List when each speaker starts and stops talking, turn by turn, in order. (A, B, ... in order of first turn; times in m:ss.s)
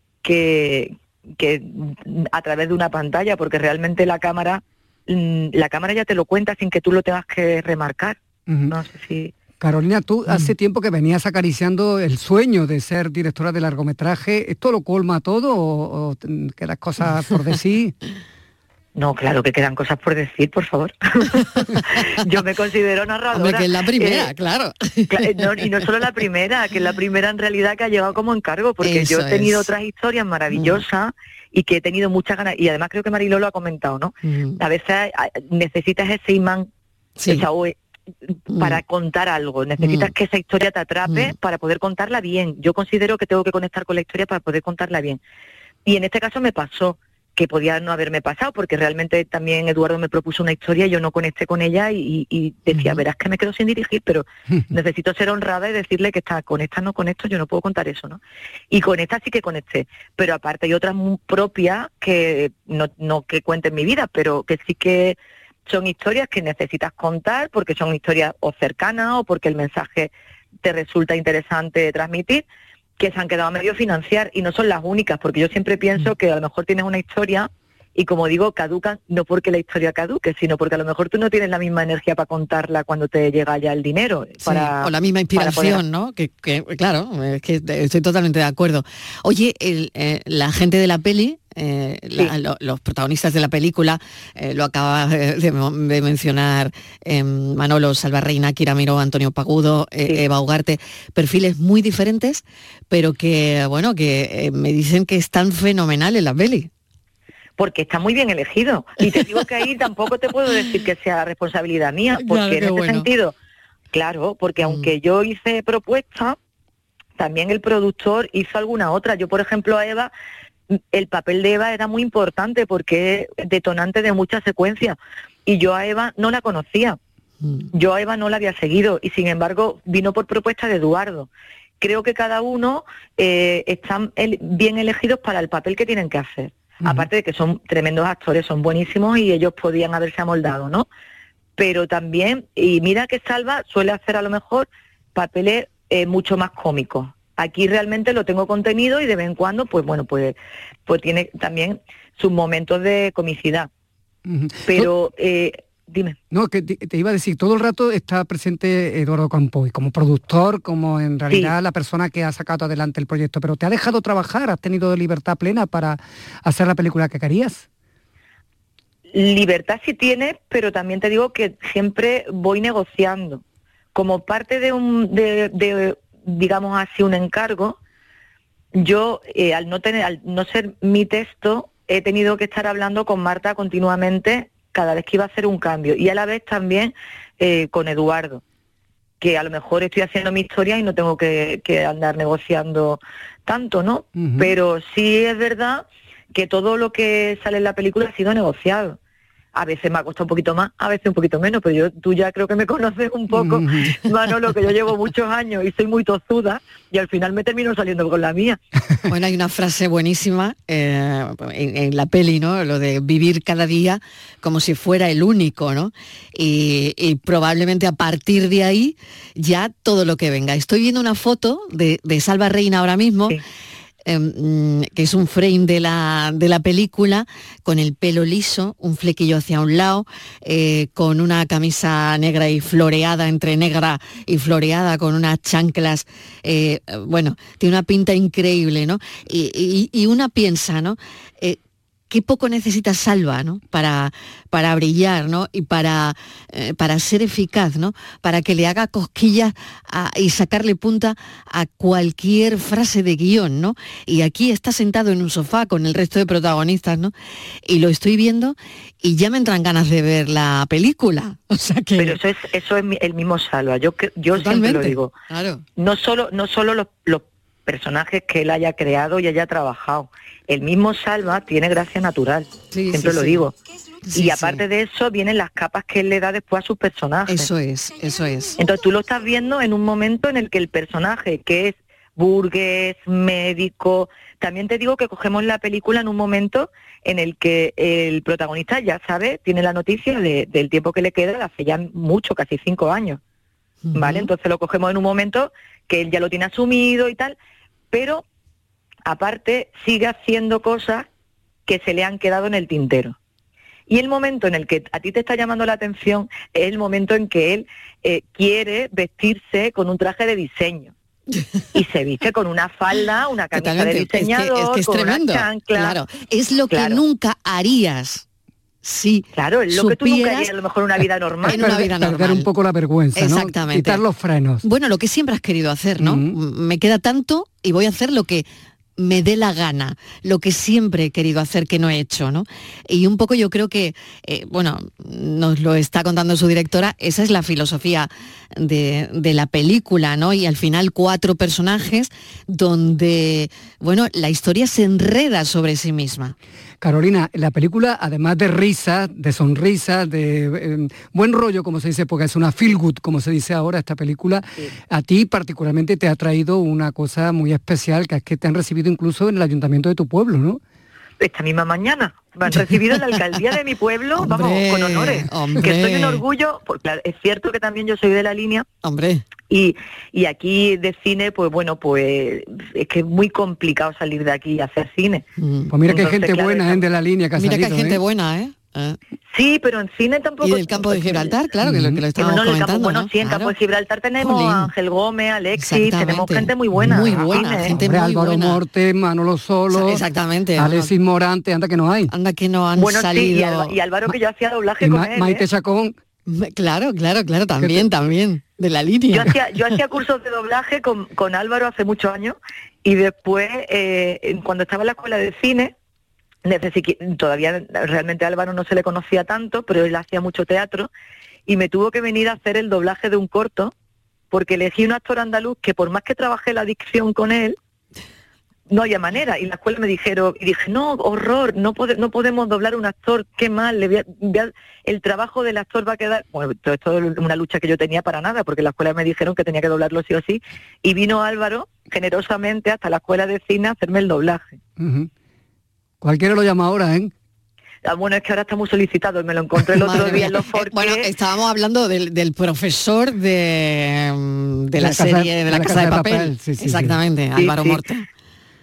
0:00.2-0:08.2 A
0:08.7-0:09.3 A
0:09.6-0:17.9 B
0:19.0-0:24.3 A
0:23.3-0:25.7 C
0:25.1-0:36.7 A
0:28.8-0:29.7 C
0:30.5-0:30.8 C
0:34.2-0:34.6 C
0:37.2-0:37.4 C
0:37.3-0:37.7 A
0:38.5-0:38.8 C
0:38.5-0:45.2 A
0:39.8-0:40.1 C
0:41.1-0:41.3 C
0:45.8-0:58.2 A
0:58.7-1:10.1 A
1:10.6-1:12.4 A
1:13.0-1:25.8 A
1:24.4-1:46.7 C
1:47.6-1:53.3 A
1:52.2-1:53.1 C
1:53.9-1:56.4 A
1:54.6-1:54.9 C
1:57.2-2:00.1 A
2:00.7-2:07.0 A
2:07.4-2:07.7 C
2:07.7-2:11.3 A
2:11.8-2:20.8 A
2:21.6-2:33.7 A
2:34.2-2:34.9 B
2:34.7-2:36.2 A
2:36.3-2:47.6 B
2:49.1-2:53.4 A
2:53.9-2:57.8 A
2:58.8-3:08.4 A
3:09.2-3:19.0 A
3:14.2-3:14.5 B
3:19.5-3:28.6 A
3:23.3-3:24.0 B
3:29.1-3:43.4 C
3:44.0-4:01.6 C
4:02.1-4:17.1 C
4:17.6-4:22.2 C
4:22.0-4:25.1 A
4:24.3-4:25.6 C
4:25.8-4:33.5 A
4:32.7-4:33.5 C
4:34.0-4:34.6 C
4:34.1-4:37.5 A
4:37.3-4:38.6 C
4:38.6-4:53.2 A
4:53.8-4:54.3 C
4:53.9-4:57.4 A
4:57.9-4:58.2 A
4:59.0-5:01.1 A
5:01.7-5:03.2 A
5:03.9-5:10.9 A
5:11.7-5:16.0 A
5:13.5-5:18.2 C
5:16.7-5:17.0 A
5:18.8-5:20.5 C
5:19.4-5:21.6 A
5:21.4-5:22.5 C
5:21.5-5:24.6 B
5:23.2-5:24.0 C
5:24.6-5:46.3 C
5:26.0-5:26.4 B
5:46.8-6:00.6 B
6:01.2-6:08.6 A
6:04.2-6:06.2 C
6:08.8-6:09.2 C
6:09.5-6:15.2 A
6:15.4-6:15.7 C
6:15.7-6:18.0 B
6:15.8-6:16.8 A
6:17.4-6:19.0 C
6:19.3-6:21.3 A
6:20.4-6:23.5 C
6:21.6-6:22.0 B
6:22.2-6:27.8 A
6:24.2-6:24.7 C
6:25.6-6:28.6 C
6:26.8-6:30.0 B
6:29.7-6:30.9 C
6:30.6-6:32.1 B
6:32.1-6:33.7 C
6:32.8-6:35.4 A
6:34.8-6:35.9 B
6:36.3-6:39.8 C
6:37.6-6:37.9 B
6:39.1-6:45.7 A
6:46.4-6:50.9 A
6:51.5-6:53.7 A
6:54.3-6:57.6 A
6:58.7-7:14.6 A
7:14.8-7:15.1 B
7:16.0-7:17.1 B
7:17.8-7:21.1 A
7:19.8-7:28.0 C
7:24.8-7:27.0 B
7:27.4-7:27.8 A